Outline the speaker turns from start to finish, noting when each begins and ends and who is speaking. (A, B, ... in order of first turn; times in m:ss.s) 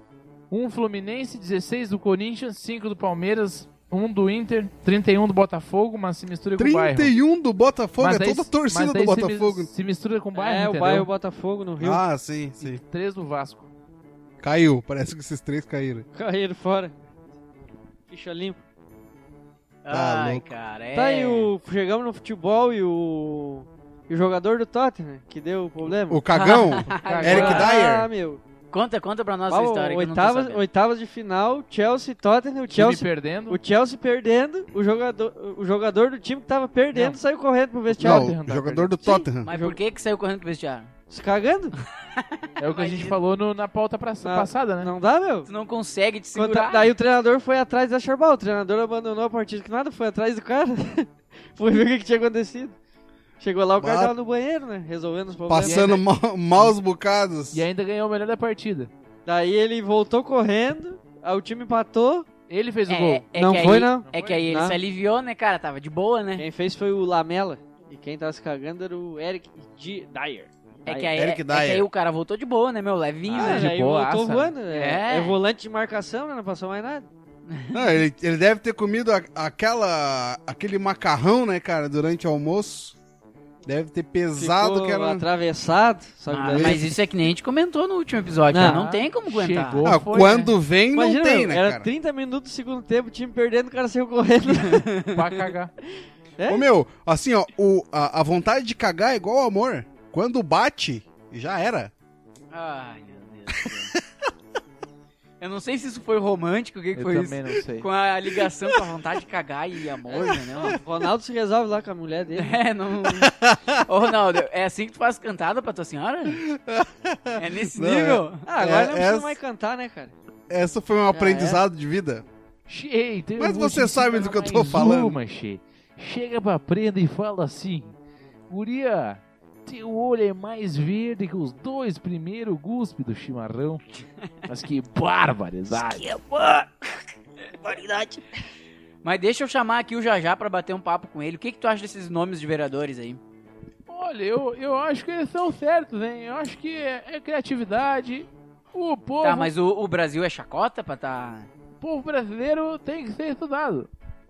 0:00.5-0:07.1 A
0:06.6-0:09.7 B
0:08.0-0:11.1 A
0:10.3-0:12.0 C
0:11.8-0:12.8 B
0:12.6-0:13.7 A
0:14.4-0:16.1 B
0:16.1-0:16.9 C
0:18.1-0:18.6 C
0:19.8-0:21.5 D
0:19.9-0:20.5 B
0:20.9-0:26.2 C
0:26.1-0:28.1 B
0:26.3-0:27.7 D
0:27.0-0:27.7 A
0:27.2-0:28.4 C
0:28.7-0:30.6 D
0:29.5-0:38.3 C
0:32.7-0:33.6 A
0:37.9-0:38.9 A
0:38.0-0:39.5 B
0:39.0-0:39.8 C
0:39.4-0:40.9 D
0:41.1-0:41.7 C
0:42.2-0:43.1 D
0:42.6-0:44.9 A
0:44.2-0:45.5 C
0:45.5-0:46.9 D
0:46.3-0:52.8 C
0:53.4-0:55.8 C
0:53.8-0:54.1 B
0:55.5-0:57.6 B
0:55.6-0:56.0 A
0:57.5-0:58.9 A
0:59.3-1:02.3 C
1:02.5-1:03.2 A
1:02.9-1:06.5 D
1:03.4-1:04.8 C
1:04.0-1:04.4 A
1:06.4-1:11.1 C
1:10.9-1:13.7 D
1:11.2-1:11.9 B
1:13.3-1:14.5 A
1:13.3-1:17.1 C
1:14.7-1:15.4 D
1:17.5-1:17.9 D
1:17.7-1:23.0 B
1:23.7-1:25.3 B
1:24.4-1:26.9 C
1:26.3-1:29.9 D
1:26.5-1:26.9 B
1:28.5-1:28.8 C
1:28.5-1:30.6 A
1:29.8-1:31.9 B
1:30.9-1:34.9 C
1:34.5-1:35.2 D
1:35.1-1:35.7 A
1:36.4-1:36.6 C
1:36.5-1:41.9 B
1:42.5-1:43.9 D
1:45.4-1:50.8 D
1:47.0-1:47.9 A
1:50.1-1:52.6 C
1:50.2-1:50.8 B
1:52.4-1:56.4 D
1:53.0-1:53.8 B
1:56.3-1:59.4 B
1:57.4-1:58.4 D
1:58.4-2:00.1 C
2:00.5-2:02.2 B
2:01.1-2:01.6 C
2:02.7-2:08.0 A
2:03.4-2:05.2 B
2:08.5-2:13.8 A
2:14.5-2:16.2 A
2:17.7-2:18.0 C
2:19.0-2:23.2 D
2:23.9-2:29.5 A
2:29.2-2:31.5 D
2:31.8-2:33.9 A